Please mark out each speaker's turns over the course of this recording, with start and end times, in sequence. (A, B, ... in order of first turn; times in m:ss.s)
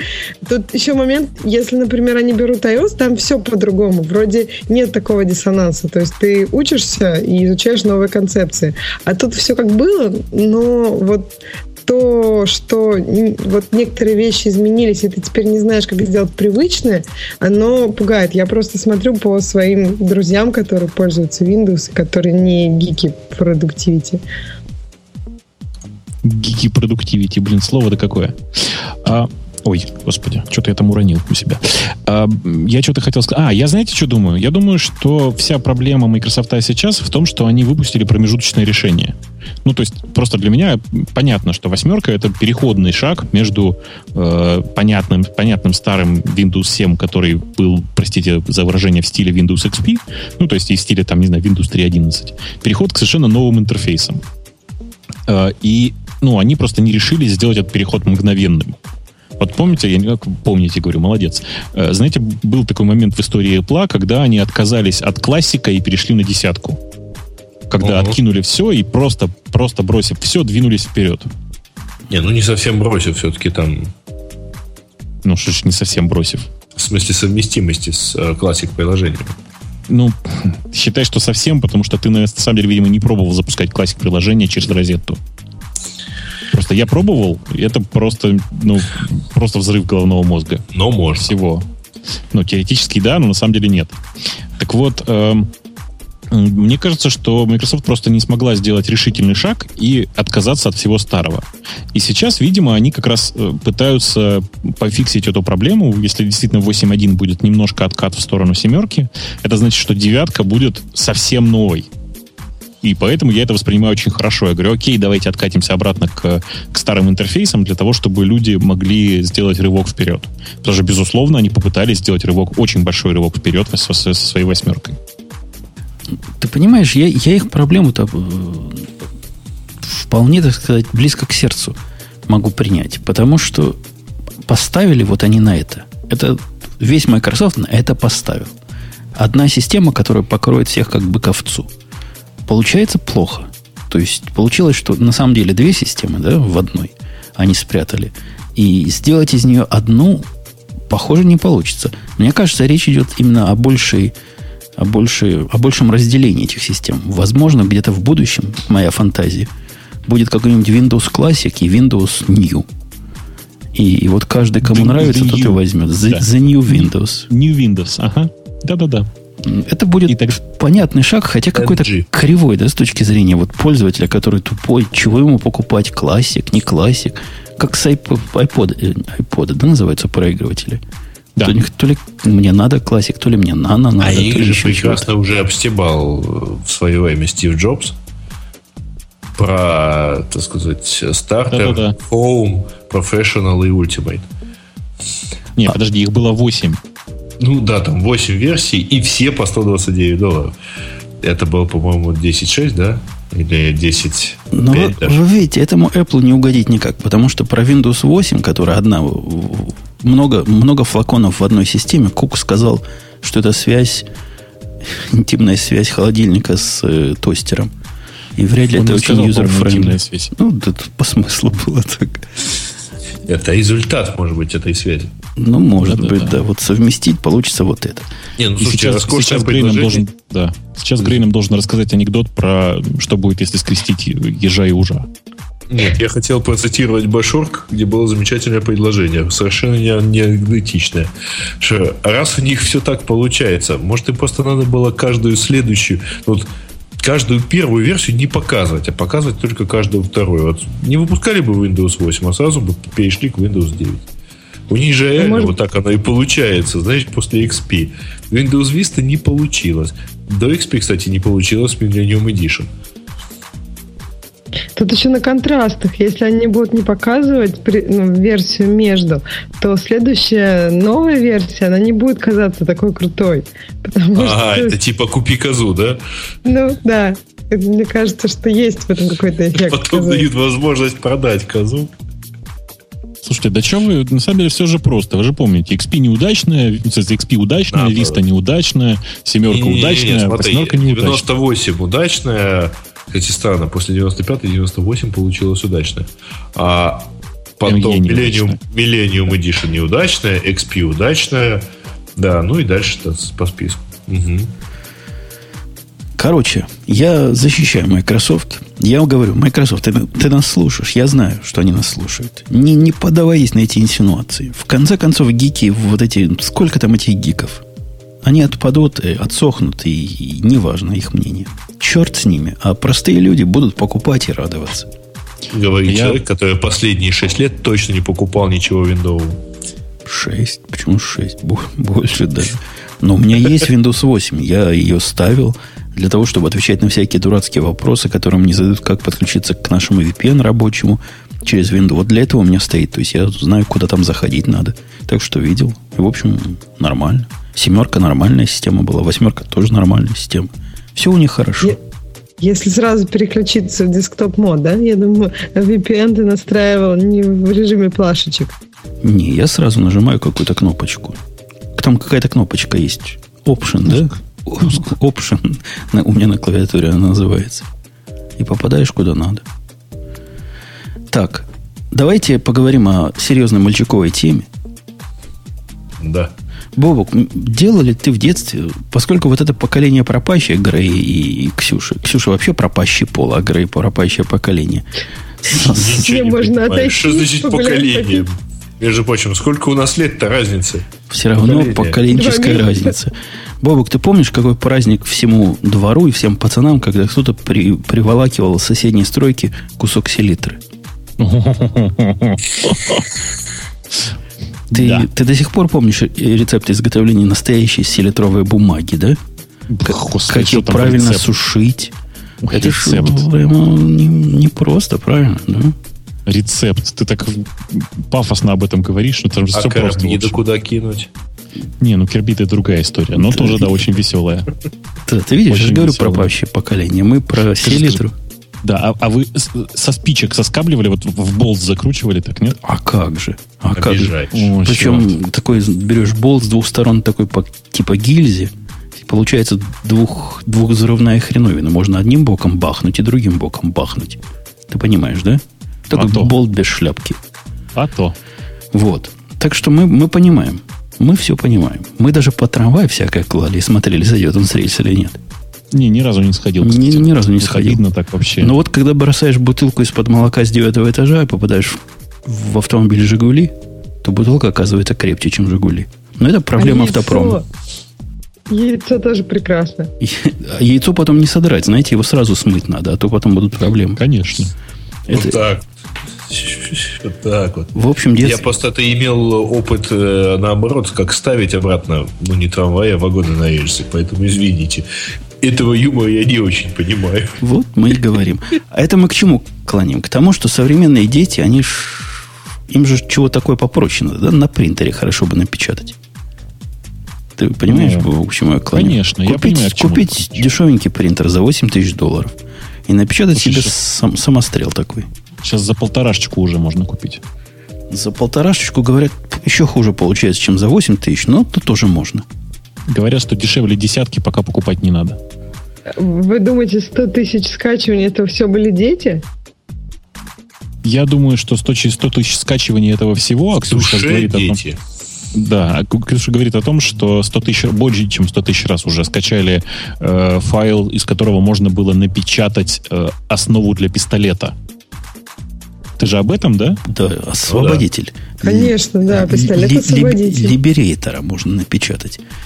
0:00.4-0:24.2 A
0:26.2-0:54.2 B
0:55.3-0:58.8 B
0:59.4-1:06.8 B
1:07.7-1:11.3 B
1:07.8-1:08.2 C
1:12.1-1:13.9 C
1:15.2-1:16.5 B
1:16.8-1:19.3 C
1:19.9-1:25.2 B
1:26.5-1:30.6 B
1:30.7-1:31.3 C
1:31.2-1:31.7 B
1:32.3-1:34.0 B
1:34.6-1:35.5 B
1:36.3-1:51.9 B
1:52.8-2:05.0 B
2:06.4-2:08.9 D
2:09.8-2:13.8 D
2:14.4-2:18.5 D
2:19.1-2:21.7 D
2:22.5-2:30.3 D
2:30.9-2:34.1 D
2:34.8-2:39.5 D
2:40.1-2:42.7 D
2:43.7-2:47.3 D
2:44.6-2:49.1 B
2:49.4-3:00.8 D
2:50.1-2:50.4 B
2:51.5-2:52.1 C
3:01.4-3:05.1 D
3:04.0-3:07.9 C
3:09.4-3:14.3 C
3:11.5-3:12.0 B
3:15.6-3:16.8 B
3:17.4-3:20.5 C
3:21.2-3:25.2 C
3:24.5-3:34.1 D
3:34.8-3:37.7 D
3:38.4-3:42.5 D
3:38.7-3:40.3 B
3:43.3-3:45.1 C
3:45.4-3:48.1 D
3:45.8-3:46.4 B
3:48.4-3:50.0 C
3:48.6-3:55.1 B
3:55.7-4:06.5 C
4:07.0-4:14.0 C
4:14.7-4:22.7 C
4:15.2-4:15.5 A
4:24.7-4:34.8 A
4:34.1-4:36.0 C
4:36.4-4:40.3 A
4:39.6-4:41.9 C
4:43.2-4:51.3 B
4:47.7-4:48.2 C
4:49.5-5:01.6 C
4:57.6-4:58.6 B
5:02.2-5:04.5 C
5:06.2-5:17.6 D
5:18.2-5:24.9 D
5:25.5-5:29.4 C
5:25.8-5:26.2 B
5:30.0-5:51.8 D
5:52.4-5:58.5 A
5:59.0-6:01.2 D
6:01.8-6:07.7 D
6:08.4-6:09.4 D
6:11.1-6:14.5 D
6:16.0-6:16.3 C
6:16.8-6:24.8 D
6:25.4-6:25.8 D
6:25.5-6:28.3 A
6:25.5-6:30.9 C
6:31.1-6:40.6 D
6:31.4-6:32.0 C
6:32.1-6:32.9 A
6:41.2-6:43.1 B
6:44.7-6:49.2 D
6:44.7-6:45.1 B
6:49.7-6:51.3 B
6:49.9-6:51.9 D
6:52.4-6:53.2 B
6:52.5-6:55.8 D
6:56.3-7:00.4 B
6:59.5-7:01.1 C
7:01.8-7:04.5 B
7:03.3-7:03.6 D
7:05.0-7:08.1 D
7:05.5-7:06.3 B
7:07.6-7:08.0 B
7:08.6-7:12.6 B
7:12.6-7:27.2 D
7:13.8-7:14.5 C
7:14.3-7:15.1 B
7:25.9-7:26.3 B
7:27.7-7:28.1 B
7:28.7-7:35.2 D
7:35.7-7:38.5 B
7:36.6-7:37.8 D
7:38.4-7:47.4 D
7:46.6-7:47.4 A
7:48.5-7:49.9 A
7:50.0-7:54.0 D
7:54.0-7:54.5 B
7:55.1-7:55.6 C
7:55.1-7:55.4 D
7:56.2-8:04.8 C
7:57.7-7:58.4 D
8:05.4-8:07.4 C
8:07.4-8:15.9 D
8:17.4-8:22.3 D
8:17.7-8:18.1 B
8:18.7-8:20.4 B
8:22.9-8:25.1 D
8:23.4-8:23.7 B
8:25.4-8:27.2 B
8:27.9-8:32.2 D
8:32.9-8:35.2 B
8:35.9-8:39.2 A
8:40.8-8:44.6 B
8:43.6-8:44.8 C
8:45.3-8:54.5 B
8:56.0-8:56.8 B
8:56.8-9:02.2 D
8:57.5-8:57.8 C
8:58.4-9:00.6 A